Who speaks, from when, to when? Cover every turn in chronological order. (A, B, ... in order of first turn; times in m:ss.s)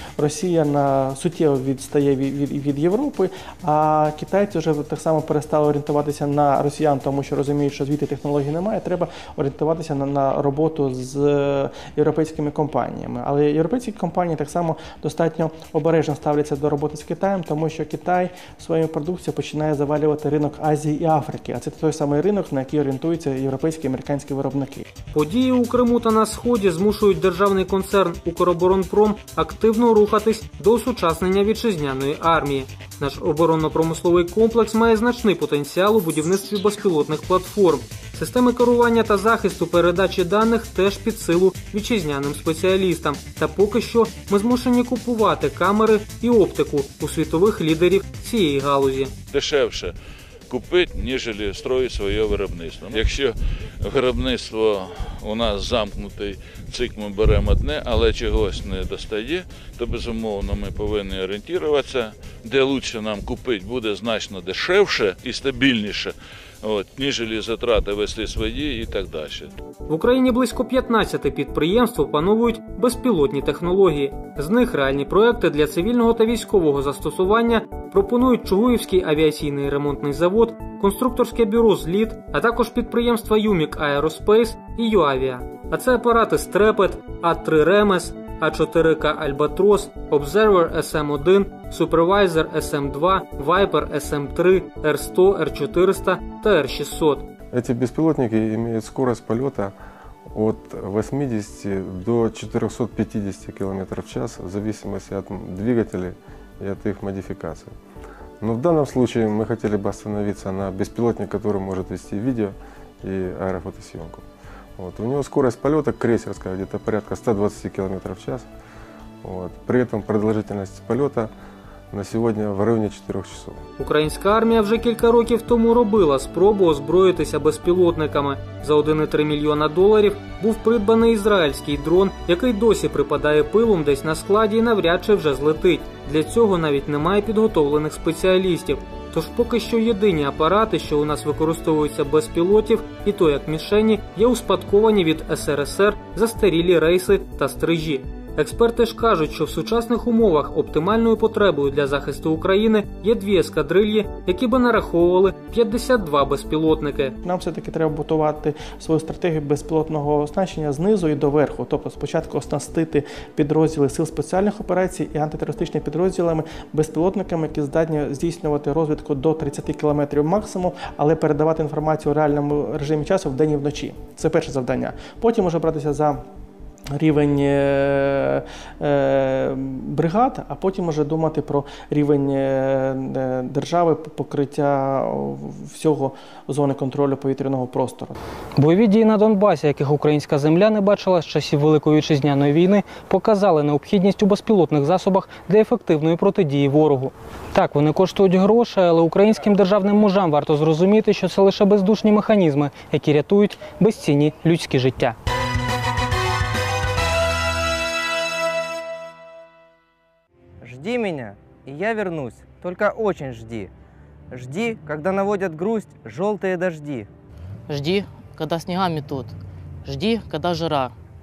0:00.2-0:24.9 A
0:25.1-0:49.1 B
0:49.3-0:50.0 C
0:50.5-1:09.5 C
1:09.9-1:37.3 B
1:37.5-1:39.8 D
1:40.3-1:47.8 D
1:48.4-1:58.5 D
1:59.2-2:01.3 D
2:01.9-2:03.6 D
2:03.8-2:37.2 B
2:37.2-2:56.2 A
2:57.0-3:08.2 A
3:08.6-3:25.2 B
3:30.6-3:33.7 E
3:34.3-3:37.1 E
3:37.7-3:40.9 F